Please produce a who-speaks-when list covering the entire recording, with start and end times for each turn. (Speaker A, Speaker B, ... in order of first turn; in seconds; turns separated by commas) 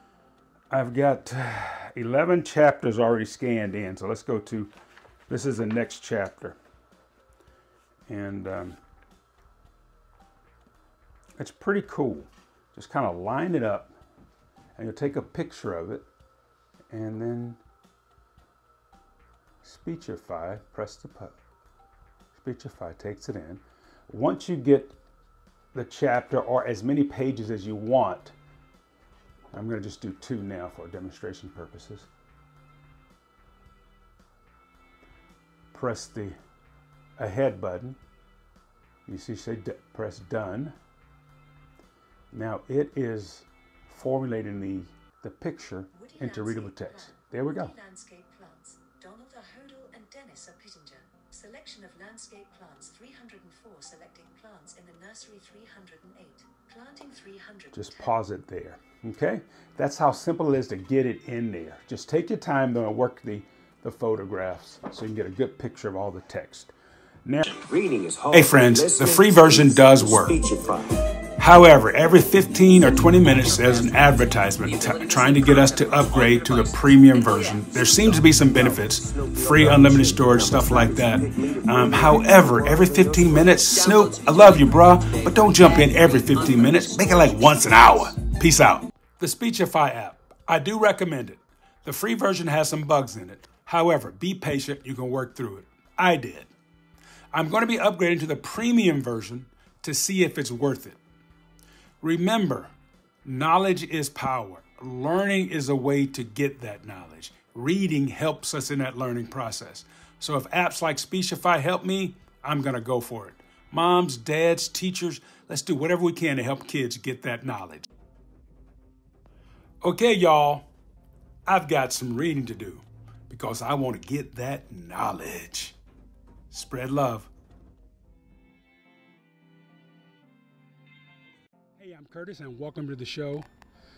Speaker A: 0.7-4.7, Speaker A: 5.3-6.6, Speaker A: 8.1-8.8, Speaker A: 11.4-13.9, Speaker A: 14.8-16.1, Speaker A: 16.9-17.6, Speaker A: 19.6-21.3, Speaker A: 22.3-24.9, Speaker A: 25.7-28.3, Speaker A: 29.5-32.1, Speaker A: 35.7-36.4, Speaker A: 37.2-38.0, Speaker A: 39.1-40.7, Speaker A: 42.3-47.7, Speaker B: 45.9-58.1, Speaker A: 57.7-66.7, Speaker C: 67.5-71.0, Speaker A: 68.3-70.4, Speaker A: 71.4-96.5, Speaker C: 73.1-88.1, Speaker A: 97.3-101.0, Speaker A: 102.0-102.7, Speaker A: 103.2-117.9, Speaker A: 119.8-120.7, Speaker A: 121.5-125.8, Speaker A: 126.5-127.3, Speaker A: 131.8-133.5